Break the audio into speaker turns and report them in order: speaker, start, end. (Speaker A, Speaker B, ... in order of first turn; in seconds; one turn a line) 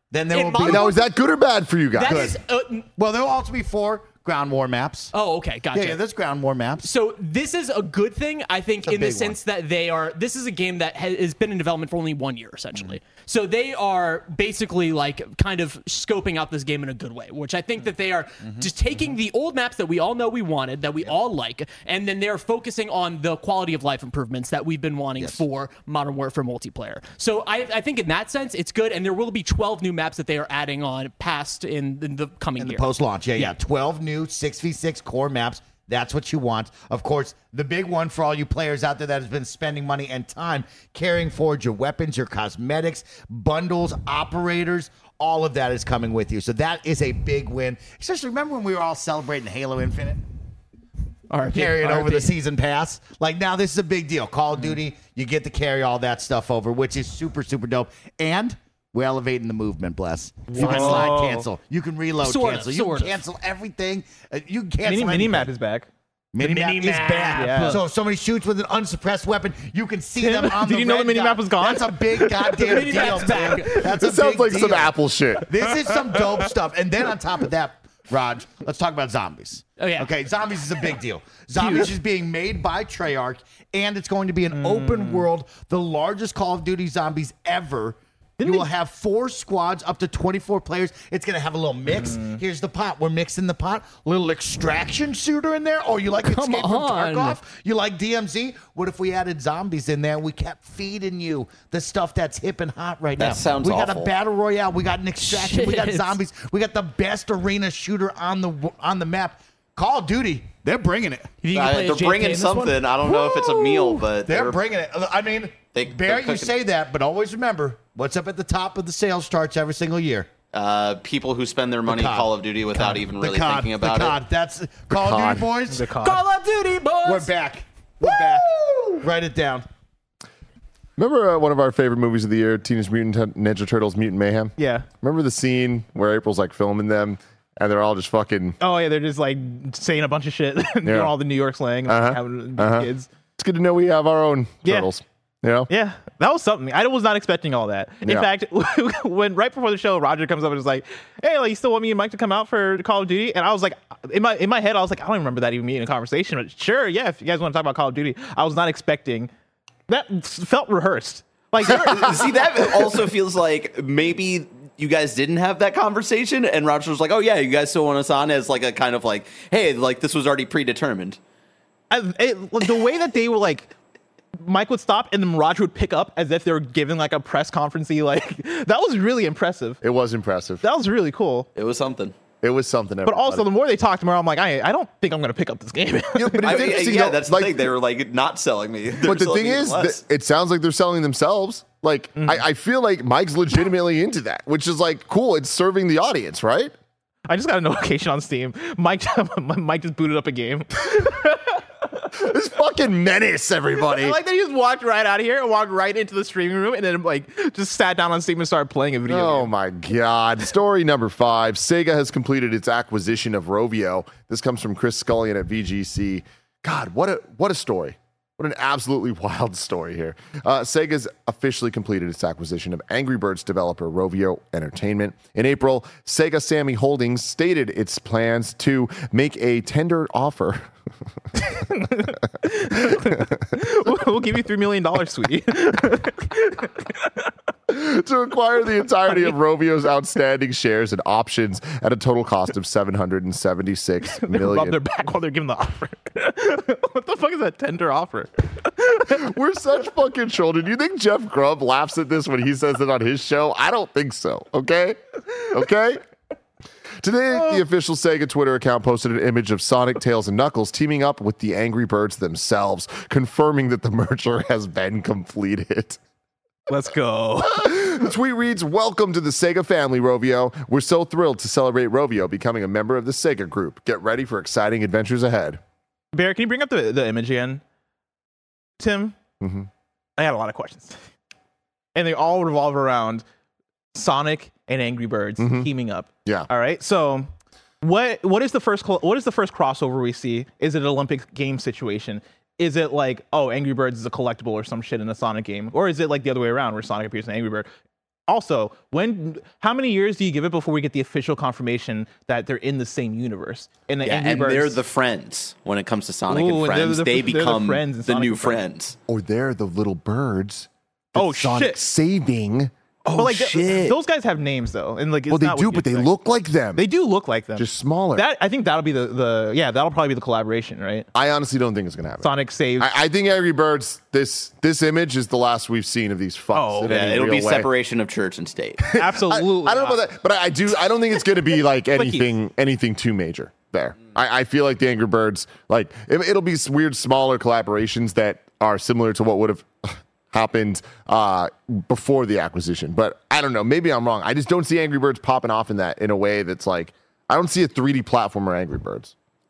Speaker A: 0.1-0.9
Speaker B: 0.3-1.0
Speaker C: 0.6-2.3
Speaker B: 1.9-2.9
Speaker A: 2.0-2.4
Speaker A: 3.0-5.1
Speaker B: 5.1-6.0
Speaker A: 5.7-6.9
Speaker B: 6.8-33.5
Speaker A: 8.8-9.4
Speaker A: 18.4-19.1
Speaker A: 32.6-50.2
Speaker B: 51.3-52.3
Speaker A: 51.4-65.5
Speaker D: 60.5-61.5
Speaker B: 60.5-61.2
Speaker B: 62.2-63.2
Speaker D: 64.8-65.9
Speaker A: 66.3-111.3
Speaker B: 66.4-67.8
Speaker D: 67.3-67.8
Speaker D: 70.2-73.1
Speaker B: 72.5-73.9
Speaker C: 73.9-75.5
Speaker B: 79.8-80.1
Speaker B: 81.6-81.9
Speaker D: 84.5-85.3
Speaker D: 88.4-88.7
Speaker D: 92.0-92.4
Speaker B: 96.2-97.4
Speaker E: 103.2-104.1
Speaker B: 105.2-106.2
Speaker B: 111.4-114.0
Speaker E: 111.5-114.6
Speaker A: 114.2-120.3
Speaker E: 115.7-116.5
Speaker E: 120.5-124.2
Speaker A: 121.8-125.9
Speaker C: 124.9-125.5
Speaker D: 125.7-126.2
Speaker B: 125.9-127.3
Speaker A: 127.0-129.6
Speaker B: 128.0-128.4
Speaker C: 131.0-138.6
Speaker D: 134.6-134.9
Speaker D: 138.6-143.1
Speaker C: 140.8-141.1
Speaker C: 141.8-145.7
Speaker D: 144.6-144.9
Speaker D: 145.7-159.3
Speaker C: 148.0-148.3
Speaker D: 159.9-162.2
Speaker E: 161.7-171.2
Speaker D: 171.9-173.7
Speaker D: 174.4-179.8
Speaker C: 179.8-180.6
Speaker D: 180.6-181.5
Speaker E: 181.5-182.1
Speaker C: 182.4-183.4
Speaker D: 183.1-186.6
Speaker C: 186.1-187.7
Speaker E: 186.4-190.0
Speaker C: 189.0-196.7
Speaker D: 192.2-192.4
Speaker D: 197.3-201.6
Speaker C: 202.1-204.2
Speaker D: 203.9-209.5
Speaker C: 209.1-230.7
Speaker D: 231.4-236.9
Speaker C: 232.7-233.1
Speaker C: 237.7-244.8
Speaker D: 239.1-239.3
Speaker D: 244.1-249.3
Speaker C: 249.1-256.0
Speaker C: 257.0-266.0
Speaker D: 266.7-267.8
Speaker C: 267.4-275.6
Speaker D: 276.1-277.6
Speaker D: 278.8-279.1
Speaker C: 279.4-279.7
Speaker D: 280.2-281.0
Speaker D: 281.9-283.2
Speaker D: 283.9-287.3
Speaker C: 285.4-285.7
Speaker D: 287.8-297.7
Speaker D: 298.3-304.8
Speaker E: 304.0-309.0
Speaker D: 306.3-308.6
Speaker C: 309.1-313.9
Speaker D: 311.1-311.8
Speaker D: 313.1-316.1
Speaker C: 315.3-316.8
Speaker D: 316.8-321.1
Speaker C: 317.6-318.2
Speaker C: 321.1-327.7
Speaker D: 322.2-322.9
Speaker D: 326.5-326.9
Speaker E: 326.9-328.8
Speaker C: 328.9-349.1
Speaker D: 328.9-330.0
Speaker D: 331.9-332.3